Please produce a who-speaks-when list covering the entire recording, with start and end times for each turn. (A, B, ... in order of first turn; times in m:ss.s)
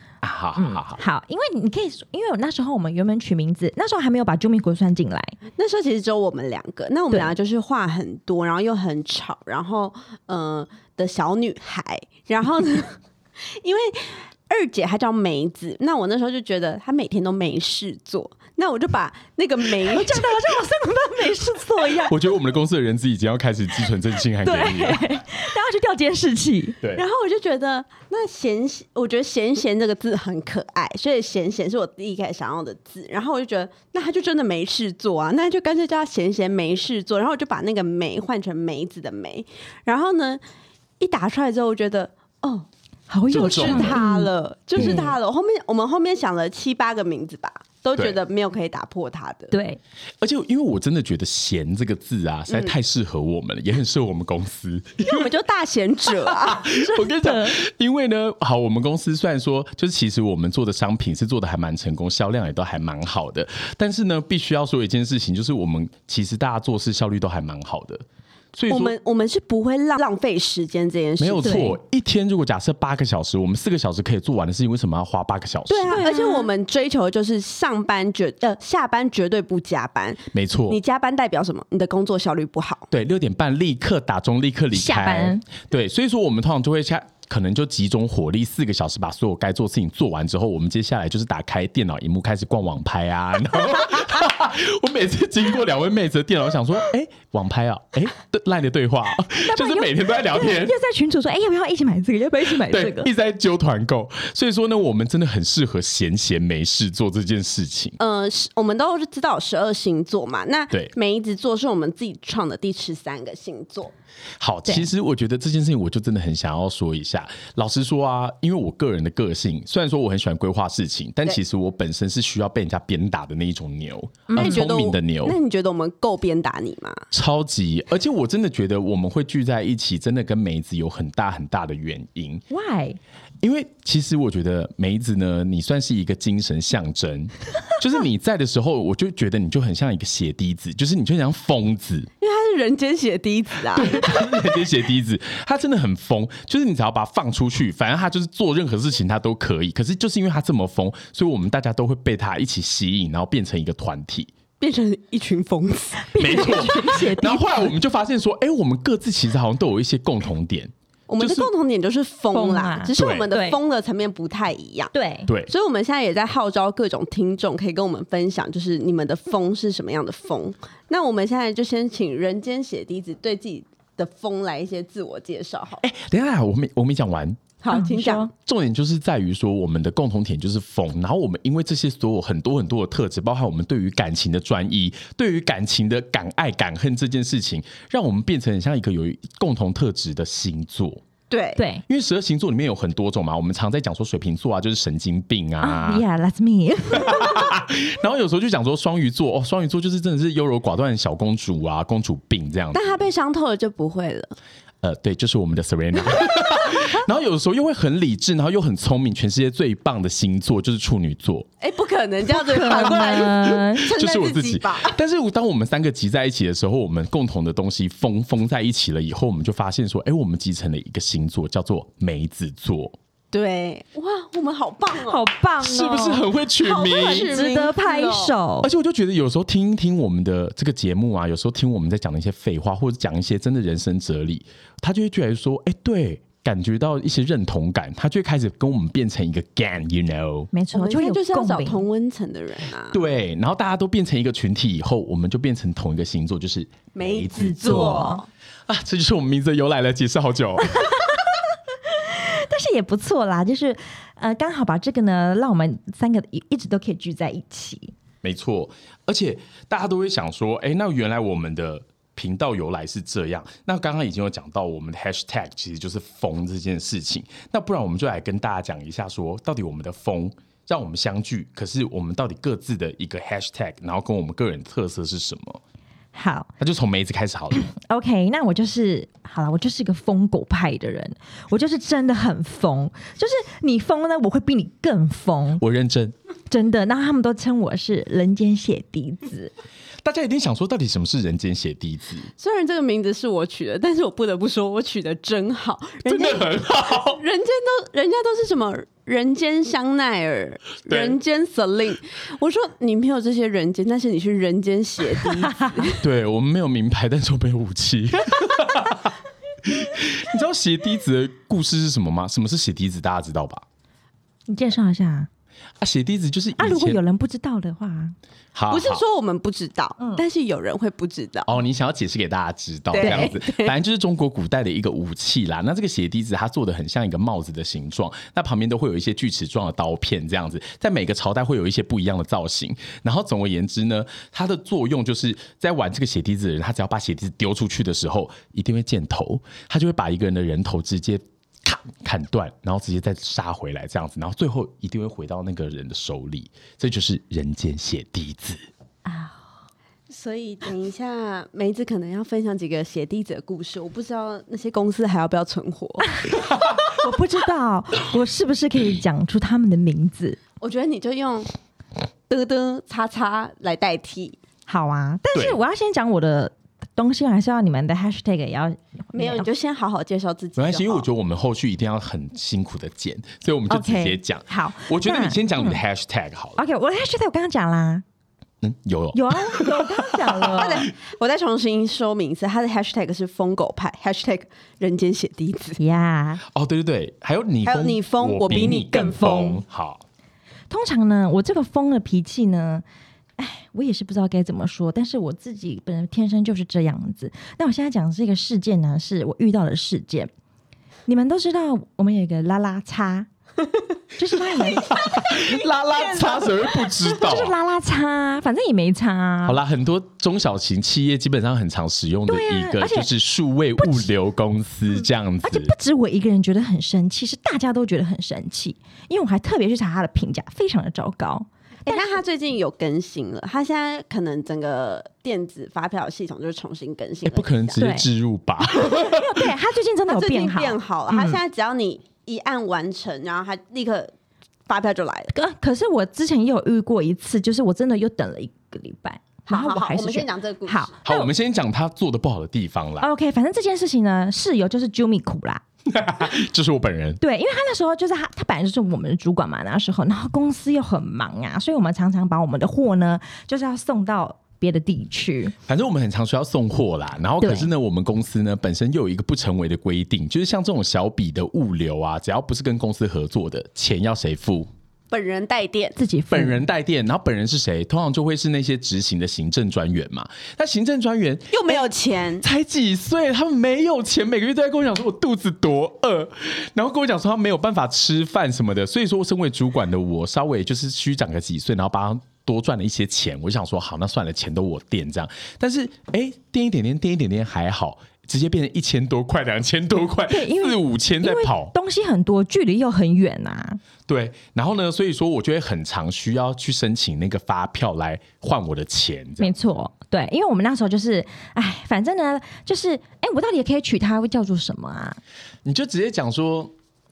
0:00.2-0:01.0 A
0:00.6-0:05.4 B
0:05.6-0:20.4 C
0:19.9-0:22.1 B
0:22.1-0:25.0 A
0:24.4-0:26.8 B
0:26.9-0:40.4 C
0:41.0-0:42.7 C
0:43.1-0:45.2 B
0:43.3-0:44.0 A
0:43.3-0:49.5 C
0:44.8-0:45.0 A
0:49.5-0:49.8 B
0:50.2-0:55.3 A
0:55.0-0:56.7 C
0:56.3-1:08.9 A
0:56.7-0:57.6 B
1:08.7-1:11.6 C
1:11.2-1:16.0 A
1:11.4-1:11.8 B
1:15.7-1:22.9 C
1:15.9-1:16.5 B
1:20.3-1:20.8 A
1:22.9-1:40.8 A
1:24.7-1:25.4 B
1:39.4-1:43.1 B
1:42.5-1:48.0 A
1:48.0-1:53.9 C
1:54.4-2:05.4 A
2:04.3-2:04.6 B
2:04.4-2:07.0 C
2:07.1-2:12.4 A
2:12.5-2:13.0 B
2:13.4-2:22.1 A
2:22.2-2:24.3 C
2:23.7-2:34.3 A
2:34.6-2:36.8 C
2:36.0-2:37.7 B
2:36.2-2:41.5 A
2:41.1-2:44.9 C
2:42.3-2:43.6 B
2:43.0-2:43.3 A
2:44.9-2:45.3 B
2:45.5-2:55.8 C
2:55.8-2:57.4 A
2:57.6-2:58.3 C
2:57.7-2:58.3 B
2:58.4-3:11.0 A
3:11.3-3:11.6 C
3:11.6-3:11.8 B
3:11.9-3:16.0 A
3:15.6-3:17.6 B
3:16.9-3:23.0 A
3:22.7-3:24.3 C
3:24.8-3:31.5 A
3:31.6-3:35.0 C
3:32.3-3:33.9 B
3:33.9-3:43.0 A
3:43.3-3:45.2 C
3:45.0-3:46.2 B
3:45.6-3:47.5 A
3:46.6-3:48.3 C
3:46.8-3:48.7 B
3:48.6-4:00.5 A
4:00.5-4:01.8 B
4:00.7-4:03.0 C
4:02.9-4:08.1 A
4:06.9-4:08.2 C
4:07.4-4:08.2 B
4:08.7-4:11.1 A
4:10.8-4:11.1 B
4:11.9-4:17.9 B
4:18.2-4:35.6 A
4:36.1-4:36.5 B
4:36.6-4:37.7 A
4:37.5-4:45.6 B
4:45.6-4:46.1 A
4:46.5-4:49.5 B
4:50.0-4:52.3 A
4:52.4-5:06.0 C
4:56.0-4:57.2 A
5:00.9-5:01.2 A
5:05.5-5:05.9 B
5:06.0-5:13.6 A
5:14.5-5:15.3 B
5:15.8-5:17.0 A
5:16.6-5:18.1 B
5:18.5-5:19.0 A
5:18.7-5:21.5 C
5:21.5-5:48.6 A
5:22.9-5:23.7 C
5:23.0-5:23.3 B
5:49.0-5:49.4 B
5:50.1-5:56.2 C
5:56.8-6:00.4 B
6:00.6-6:01.5 C
6:02.3-6:04.4 C
6:04.7-6:09.5 B
6:09.1-6:11.0 C
6:10.6-6:16.6 A
6:13.7-6:15.8 B
6:16.6-6:18.0 B
6:18.6-6:20.5 A
6:19.1-6:20.9 B
6:20.5-6:25.8 C
6:25.8-6:26.4 B
6:26.5-6:30.0 A
6:27.6-6:29.6 C
6:30.7-6:32.8 B
6:33.4-6:40.3 B
6:41.1-6:43.3 B
6:44.2-6:45.0 B
6:44.7-6:47.5 A
6:45.2-6:46.7 C
6:47.0-6:49.6 B
6:49.4-6:55.7 A
6:52.3-6:53.1 B
6:53.8-6:54.1 B
6:55.4-7:02.2 B
7:01.8-7:07.8 C
7:07.2-7:09.3 A
7:07.8-7:08.1 B
7:08.7-7:11.4 B
7:10.1-7:14.1 C
7:14.7-7:15.3 C
7:15.3-7:21.3 B
7:19.5-7:20.9 C
7:21.0-7:23.1 A
7:23.0-7:25.6 B
7:25.9-7:27.2 A
7:27.2-7:35.5 B
7:35.7-7:44.7 A
7:37.4-7:37.7 B
7:45.1-7:46.0 C
7:46.0-7:46.6 B
7:46.3-7:51.8 A
7:51.5-7:52.4 C
7:52.4-8:11.7 A
8:10.3-8:13.8 B
8:14.1-8:19.5 A
8:19.4-8:25.2 B
8:25.6-8:26.7 A